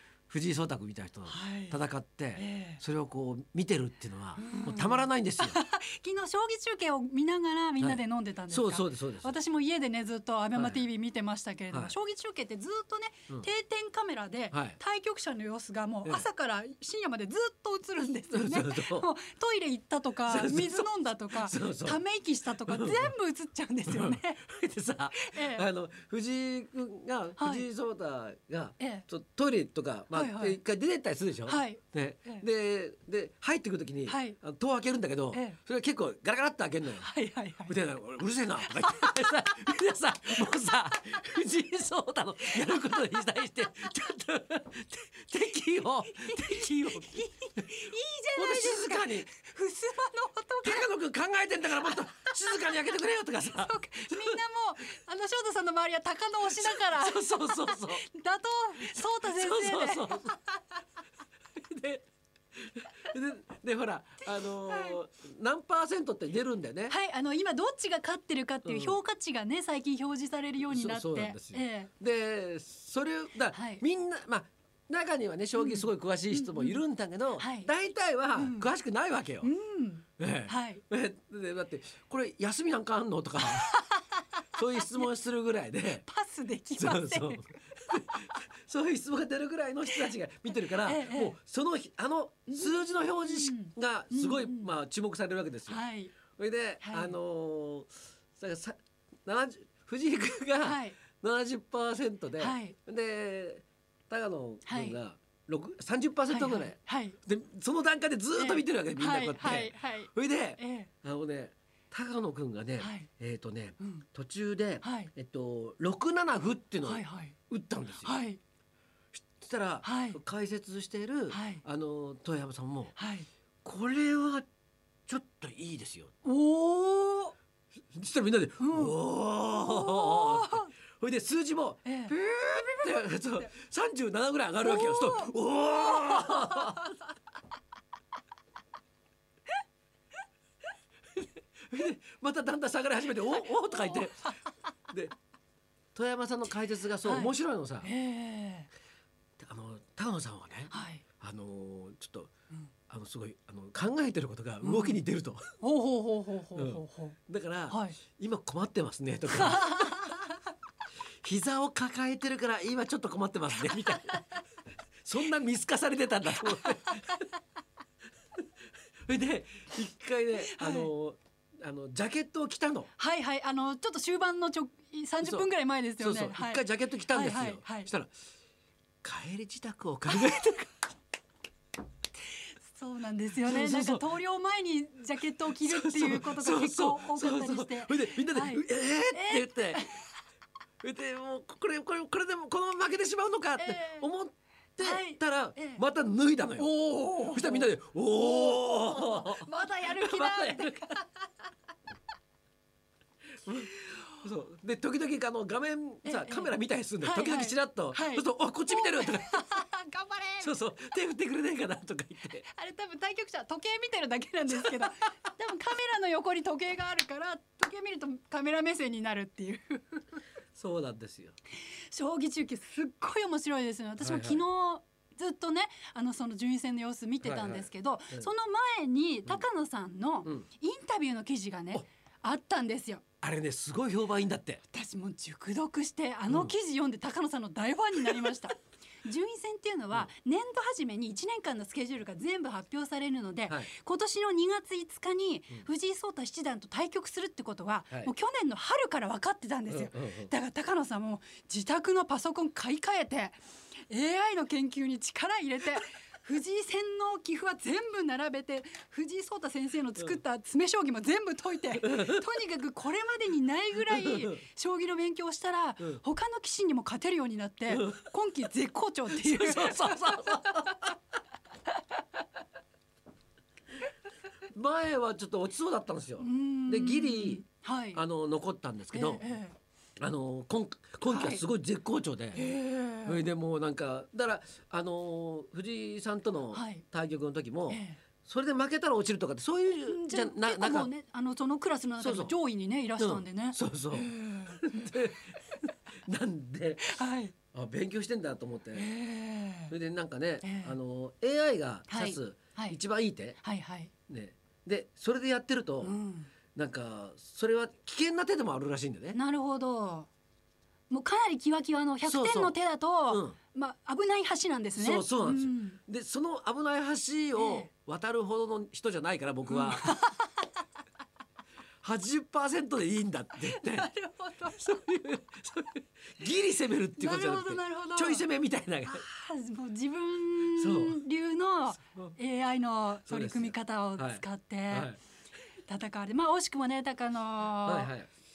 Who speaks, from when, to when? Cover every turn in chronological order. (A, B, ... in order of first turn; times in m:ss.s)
0:00.3-0:05.6 A
0:01.3-0:01.8 B
0:02.4-0:02.8 B
0:04.4-0:24.4 B
0:07.8-0:09.3 A
0:10.6-0:10.8 A
0:14.5-0:14.8 A
0:18.3-0:19.1 A
0:20.3-0:22.0 A
0:22.6-0:23.1 A
0:23.9-0:37.1 A
0:25.2-0:25.7 B
0:27.4-0:27.7 B
0:28.8-0:29.0 B
0:30.1-0:30.6 B
0:31.5-0:32.5 B
0:34.1-0:34.4 B
0:35.3-0:35.6 B
0:37.0-0:37.8 B
0:37.7-0:47.8 A
0:38.7-0:39.2 B
0:46.1-0:50.9 B
0:48.4-0:49.3 A
0:50.6-0:54.4 A
0:51.8-1:00.6 B
0:56.6-0:58.0 A
0:58.8-1:00.3 A
1:01.6-1:07.0 A
1:04.4-1:05.0 B
1:06.9-1:11.9 B
1:08.6-1:09.0 A
1:10.6-1:19.5 A
1:13.5-1:13.8 B
1:15.6-1:16.8 B
1:17.4-1:17.7 B
1:18.4-1:18.7 B
1:19.4-1:20.8 B
1:20.2-1:23.8 A
1:23.5-1:24.2 B
1:24.5-1:26.1 A
1:26.0-1:28.4 B
1:26.8-1:35.8 A
1:30.6-1:31.4 B
1:33.2-1:34.7 B
1:35.7-1:36.1 B
1:36.3-1:58.2 A
1:36.8-1:37.2 B
1:40.6-1:41.0 B
1:42.4-1:42.8 B
1:44.7-1:45.0 B
1:46.3-1:47.2 B
1:48.4-1:50.9 B
1:52.8-1:53.1 B
1:53.8-1:54.0 B
1:54.8-1:55.1 B
1:56.8-1:57.4 B
1:58.0-1:58.4 B
1:59.1-2:03.0 A
1:59.8-2:00.2 B
2:01.3-2:01.6 B
2:03.0-2:03.3 B
2:03.6-2:04.4 A
2:05.1-2:06.2 A
2:06.2-2:07.3 B
2:07.9-2:16.9 A
2:08.6-2:09.0 B
2:09.6-2:10.7 B
2:11.8-2:13.0 B
2:14.6-2:15.3 B
2:15.8-2:16.8 B
2:21.7-2:24.4 A
2:23.6-2:24.0 B
2:24.9-2:25.1 A
2:26.0-2:27.9 A
2:27.0-2:27.3 B
2:27.8-2:28.7 B
2:29.4-2:32.3 A
2:30.7-2:31.0 B
2:32.9-2:35.5 A
2:34.6-2:35.0 B
2:35.6-2:37.2 B
2:36.6-2:40.1 A
2:37.7-2:38.0 B
2:39.4-2:40.2 B
2:41.2-2:44.4 A
2:45.0-2:47.3 A
2:46.6-2:47.0 B
2:49.1-2:52.9 A
2:50.4-2:50.9 B
2:53.0-2:57.9 B
2:55.2-2:58.1 A
2:59.0-3:00.7 A
3:00.1-3:00.5 B
3:02.7-3:10.1 B
3:03.4-3:04.1 A
3:05.6-3:09.8 A
3:10.8-3:20.8 A
3:13.6-3:14.1 B
3:14.8-3:15.8 B
3:16.6-3:21.3 B
3:23.4-3:29.4 A
3:26.0-3:30.6 B
3:30.4-3:32.4 A
3:32.4-3:40.2 B
3:40.6-3:41.4 A
3:41.7-3:53.0 B
3:44.0-3:44.4 A
3:47.2-3:48.3 A
3:53.2-3:54.6 A
3:54.7-4:13.4 B
3:56.3-3:56.5 A
4:09.7-4:10.3 A
4:13.9-4:30.9 B
4:21.8-4:22.2 A
4:23.9-4:24.4 A
4:27.7-4:28.1 A
4:29.2-4:30.9 A
4:34.5-4:39.3 A
4:36.2-4:38.0 B
4:38.9-4:39.6 B
4:40.0-4:42.5 A
4:41.1-4:41.4 B
4:42.3-4:43.2 B
4:43.0-4:50.9 A
4:46.5-4:46.8 B
4:47.7-4:48.0 B
4:49.9-4:54.9 B
4:52.0-4:52.3 A
4:53.0-4:56.9 A
4:56.8-4:57.3 B
4:57.5-4:58.9 A
4:58.7-4:59.7 B
4:59.7-5:03.4 A
5:00.4-5:00.8 B
5:01.9-5:02.8 B
5:03.4-5:03.9 B
5:04.1-5:06.0 A
5:05.8-5:06.3 B
5:06.6-5:09.2 A
5:09.1-5:10.1 B
5:10.9-5:15.8 B
5:12.0-5:12.6 A
5:13.1-5:13.4 A
5:14.8-5:20.0 A
5:17.4-5:17.7 B
5:19.5-5:20.3 B
5:21.8-5:23.9 A
5:23.4-5:24.7 B
5:24.4-5:29.0 A
5:27.0-5:28.2 B
5:28.8-5:34.9 B
5:30.5-5:31.0 A
5:33.1-5:35.0 A
5:35.7-5:37.9 B
5:37.6-5:38.1 A